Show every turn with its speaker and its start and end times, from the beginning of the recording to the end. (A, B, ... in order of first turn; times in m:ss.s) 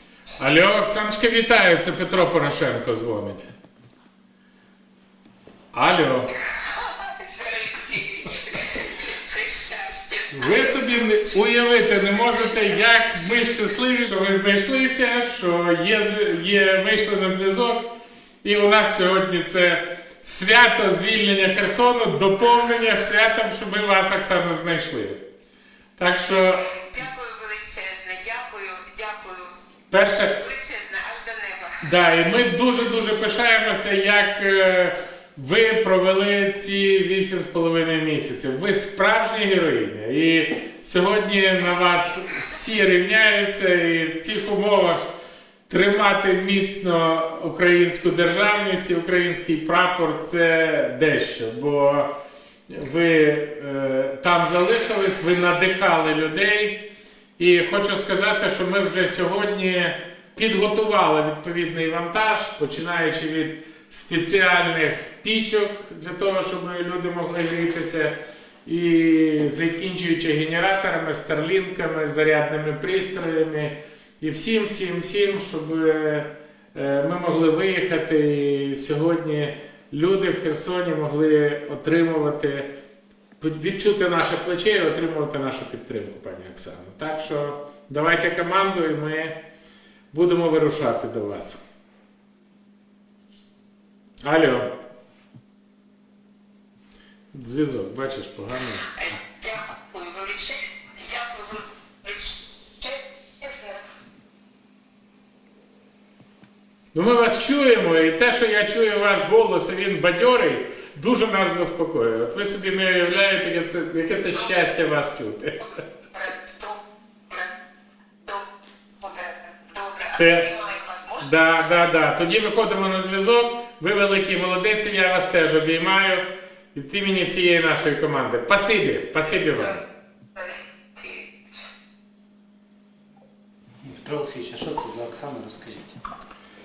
0:00.4-0:03.5 A
0:05.7-0:06.3 A
0:06.6-0:10.6 B
0:10.3-0:17.9 A
0:18.4-0:25.2 A
0:26.0-0:26.8 A
0:26.7-0:29.5 B
0:29.9-0:30.4 A
0:30.4-0:31.8 B
0:31.8-0:45.0 A
0:45.7-0:52.1 A
0:52.7-0:56.8 A
0:57.4-1:22.7 A
1:23.4-1:29.4 A
1:30.1-1:31.6 A
1:34.2-1:34.7 A
1:37.3-1:39.2 A
1:39.0-1:43.8 B
1:46.9-1:55.8 A
1:56.1-1:56.8 B
1:59.0-2:01.2 B
2:00.1-2:00.5 A
2:01.2-2:09.8 A
2:10.4-2:11.2 B
2:13.8-2:16.0 C